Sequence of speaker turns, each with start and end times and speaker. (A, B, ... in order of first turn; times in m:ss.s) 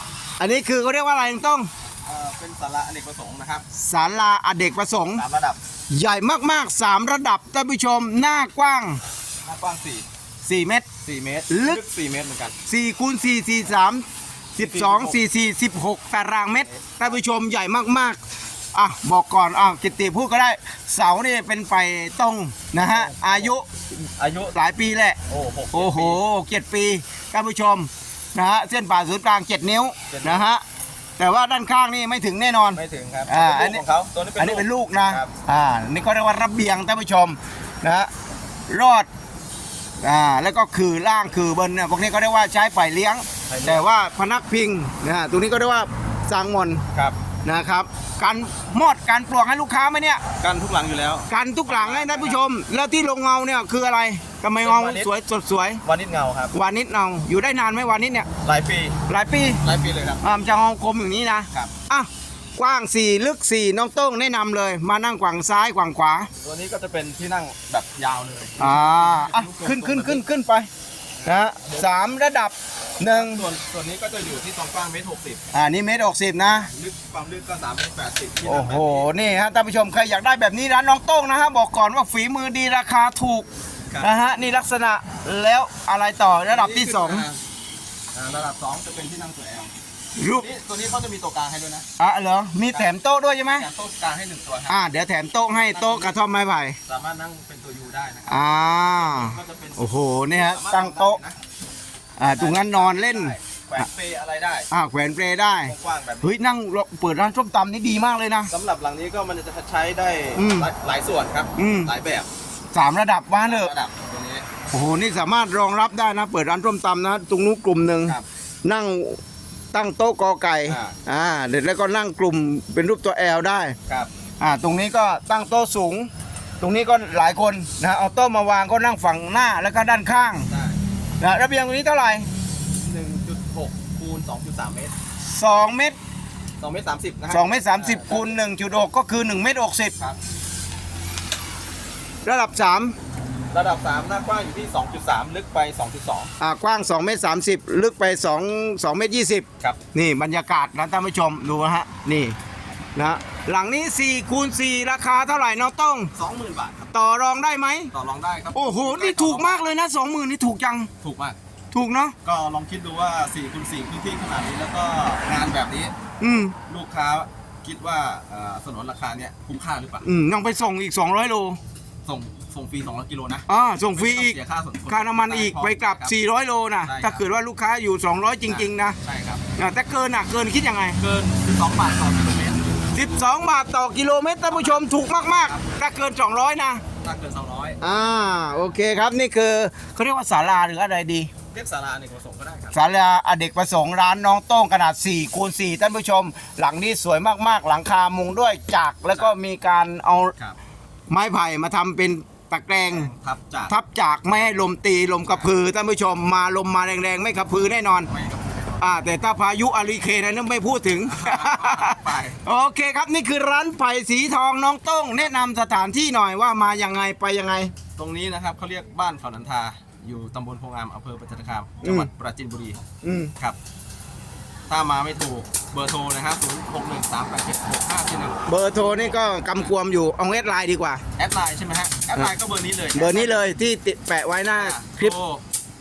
0:00.4-0:01.7 A
0:02.0-0:03.7 B
0:03.7-0:05.2 A
0:05.1-0:05.6 B
0:05.9-0:09.0 A
0:09.4-0:10.0 B
0:10.4-0:10.8 A
0:11.0-0:12.6 B
0:11.5-0:11.8 A
0:12.7-0:14.0 A
0:14.6-0:18.2 A
0:14.6-0:15.2 B
0:16.6-0:17.2 B
0:18.7-0:23.6 A
0:22.8-0:23.5 B
0:24.2-0:24.6 B
0:24.5-0:25.2 A
0:25.3-0:26.2 B
0:25.7-0:30.6 A
0:30.1-0:30.5 B
0:31.2-0:33.8 A
0:32.7-0:35.3 B
0:34.4-0:38.1 A
0:38.7-0:39.1 A
0:40.0-0:46.8 A
0:43.5-0:43.9 B
0:47.4-0:50.2 A
0:50.4-0:52.4 B
0:51.3-0:55.8 A
0:54.6-0:55.1 B
0:55.8-0:56.5 B
0:56.5-0:58.3 A
0:58.4-0:59.0 B
0:59.1-0:59.6 A
0:59.6-1:00.2 B
1:00.2-1:06.3 A
1:06.4-1:10.2 B
1:08.6-1:10.7 A
1:11.2-1:13.4 A
1:11.6-1:11.9 B
1:13.0-1:15.4 B
1:15.5-1:16.7 A
1:16.5-1:19.1 B
1:18.4-1:23.5 A
1:24.0-1:27.3 A
1:26.4-1:27.4 B
1:28.1-1:29.7 B
1:30.2-1:30.5 A
1:30.3-1:31.9 B
1:32.0-1:33.7 A
1:33.4-1:34.9 B
1:34.7-1:36.8 A
1:35.5-1:36.2 B
1:36.9-1:41.4 B
1:38.3-1:41.2 A
1:42.2-1:43.3 A
1:42.3-1:44.7 B
1:44.7-1:48.5 A
1:45.6-1:46.4 B
1:48.5-1:52.3 B
1:50.4-1:50.7 A
1:51.6-1:51.9 A
1:52.7-1:53.7 A
1:53.4-1:54.4 B
1:54.7-1:59.2 A
1:59.7-2:03.8 A
2:00.7-2:01.0 B
2:04.4-2:10.5 A
2:10.5-2:10.8 B
2:11.2-2:12.3 A
2:12.7-2:14.9 B
2:15.2-2:16.0 A
2:16.6-2:18.4 B
2:17.3-2:20.0 A
2:22.2-2:22.9 A
2:23.5-2:26.3 B
2:26.4-2:32.4 A
2:33.0-2:36.1 A
2:36.1-2:36.9 B
2:36.9-2:37.9 A
2:37.9-2:39.6 B
2:38.5-2:40.9 A
2:41.0-2:41.4 B
2:41.7-2:42.1 A
2:42.2-2:45.9 B
2:46.2-2:46.5 A
2:46.7-2:50.1 B
2:50.0-2:51.6 A
2:52.0-2:56.1 B
2:53.5-2:54.4 A
2:54.9-2:59.0 A
2:56.8-2:57.2 B
2:58.4-2:59.4 B
2:59.6-3:01.0 A
3:01.0-3:02.7 B
3:02.9-3:06.8 A
3:04.5-3:05.7 B
3:07.0-3:07.8 B
3:07.8-3:11.3 A
3:11.5-3:12.8 B
3:12.7-3:20.3 A
3:21.1-3:23.1 A
3:22.8-3:23.7 B
3:23.7-3:28.1 A
3:28.1-3:28.8 B
3:28.8-3:37.7 A
3:31.0-3:32.4 B
3:38.0-3:42.8 B
3:41.8-3:42.1 A
3:43.0-3:43.3 A
3:44.7-3:49.7 B
3:48.4-3:51.0 A
3:51.2-3:53.4 B
3:52.9-3:55.1 A
3:54.5-3:55.4 B